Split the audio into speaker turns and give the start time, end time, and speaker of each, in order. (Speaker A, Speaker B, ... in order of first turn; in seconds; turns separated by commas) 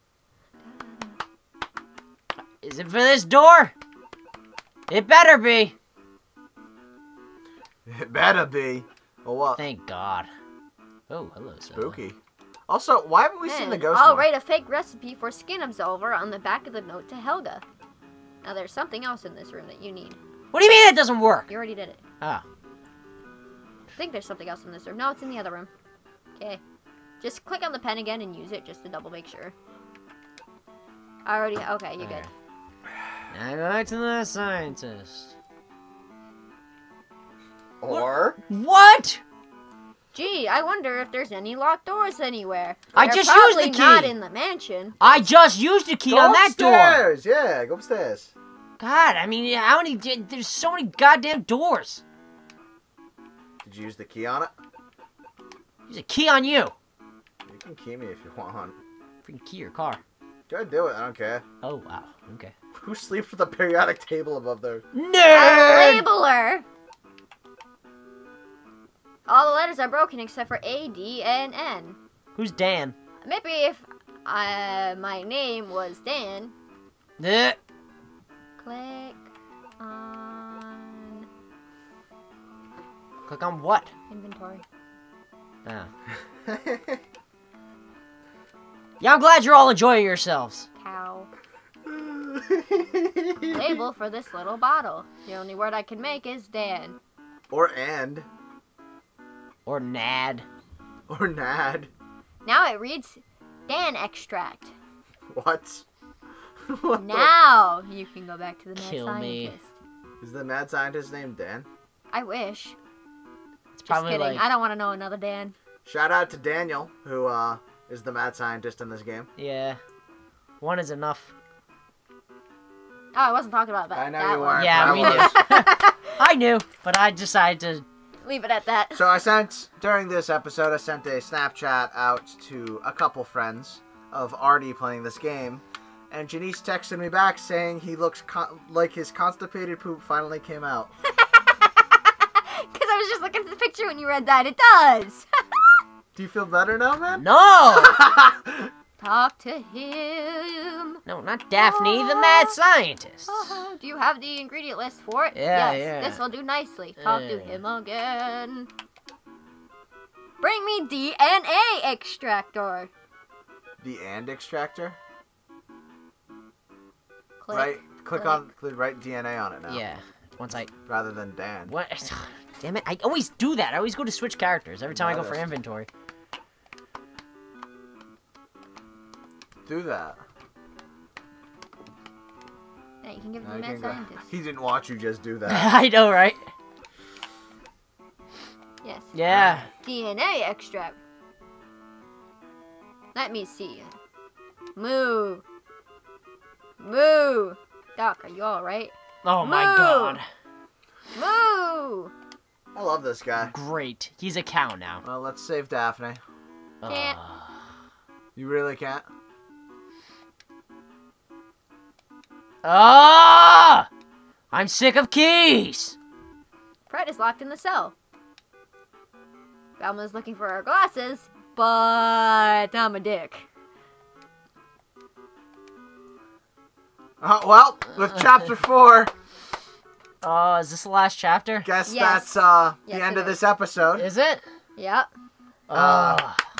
Speaker A: 0.7-1.1, Speaker B: 2.6-3.7, Speaker B: 4.9-5.7, Speaker C: 7.8-9.6, Speaker B: 9.5-10.3, Speaker B: 11.1-12.0, Speaker C: 11.7-12.2, Speaker C: 12.7-14.3, Speaker A: 13.4-17.6, Speaker A: 18.4-20.2, Speaker B: 20.5-21.5, Speaker A: 21.5-22.0, Speaker A: 23.9-25.7, Speaker A: 27.2-29.5, Speaker A: 31.2-32.3, Speaker B: 32.0-32.3, Speaker B: 33.3-35.3, Speaker C: 37.8-38.4, Speaker B: 37.8-39.2, Speaker A: 40.1-45.0, Speaker B: 42.9-44.1, Speaker B: 45.0-47.0, Speaker C: 46.1-48.3, Speaker B: 48.8-52.0, Speaker C: 53.6-54.5, Speaker B: 55.9-56.7, Speaker C: 57.5-58.8, Speaker B: 59.2-60.0, Speaker C: 60.5-61.4, Speaker B: 61.6-62.5, Speaker C: 62.8-64.8, Speaker B: 64.9-66.0, Speaker A: 65.3-66.6, Speaker A: 69.3-72.0, Speaker B: 72.3-72.9, Speaker A: 73.2-76.5, Speaker B: 77.2-77.6, Speaker A: 78.6-79.2, Speaker A: 79.8-81.3, Speaker B: 83.3-83.9, Speaker A: 84.1-84.6, Speaker C: 86.5-87.0, Speaker B: 89.0-90.7, Speaker A: 90.8-91.3, Speaker C: 91.8-93.7, Speaker A: 93.5-97.0, Speaker C: 97.5-98.3, Speaker B: 99.7-100.5, Speaker C: 101.1-101.9, Speaker A: 102.4-104.7, Speaker C: 105.3-105.8, Speaker C: 106.7-107.3, Speaker A: 107.0-109.7, Speaker B: 108.8-109.5, Speaker C: 110.2-111.7, Speaker A: 112.1-112.8, Speaker B: 113.8-114.4, Speaker A: 113.9-115.5, Speaker C: 115.8-119.3, Speaker B: 119.4-119.8, Speaker B: 120.6-121.3, Speaker A: 123.1-126.2, Speaker C: 123.9-125.4, Speaker B: 124.5-127.8, Speaker A: 128.2-129.1, Speaker C: 128.9-140.9, Speaker A: 141.2-145.6, Speaker C: 146.1-148.7, Speaker B: 147.1-148.0, Speaker A: 149.0-151.0, Speaker B: 151.1-153.6, Speaker A: 151.5-152.5, Speaker A: 153.3-158.7, Speaker B: 155.3-156.2, Speaker B: 157.0-157.6, Speaker A: 160.4-162.9, Speaker C: 163.8-164.9, Speaker A: 167.4-168.5, Speaker C: 167.5-169.8, Speaker B: 169.7-170.7, Speaker C: 170.9-171.7, Speaker B: 171.7-175.9, Speaker C: 174.9-175.5, Speaker C: 179.7-180.2, Speaker A: 183.0-184.2, Speaker C: 183.4-185.7, Speaker B: 185.5-186.4, Speaker A: 188.8-189.2, Speaker B: 189.1-189.7, Speaker C: 189.3-189.6, Speaker A: 189.8-191.0, Speaker A: 193.1-193.9, Speaker A: 194.8-195.4, Speaker A: 196.8-200.2, Speaker B: 199.2-200.2, Speaker A: 201.1-202.1, Speaker C: 202.7-203.5, Speaker B: 203.4-205.0, Speaker C: 205.0-206.2, Speaker B: 206.8-207.5, Speaker A: 206.8-207.2, Speaker C: 208.3-209.1, Speaker B: 212.6-213.9, Speaker B: 214.5-215.9, Speaker A: 216.9-217.9, Speaker A: 219.8-223.4, Speaker C: 227.2-229.1, Speaker B: 230.2-231.7, Speaker C: 231.6-234.1, Speaker A: 231.8-233.4, Speaker B: 233.9-234.4, Speaker A: 234.8-235.1, Speaker B: 235.7-236.4, Speaker C: 235.7-236.2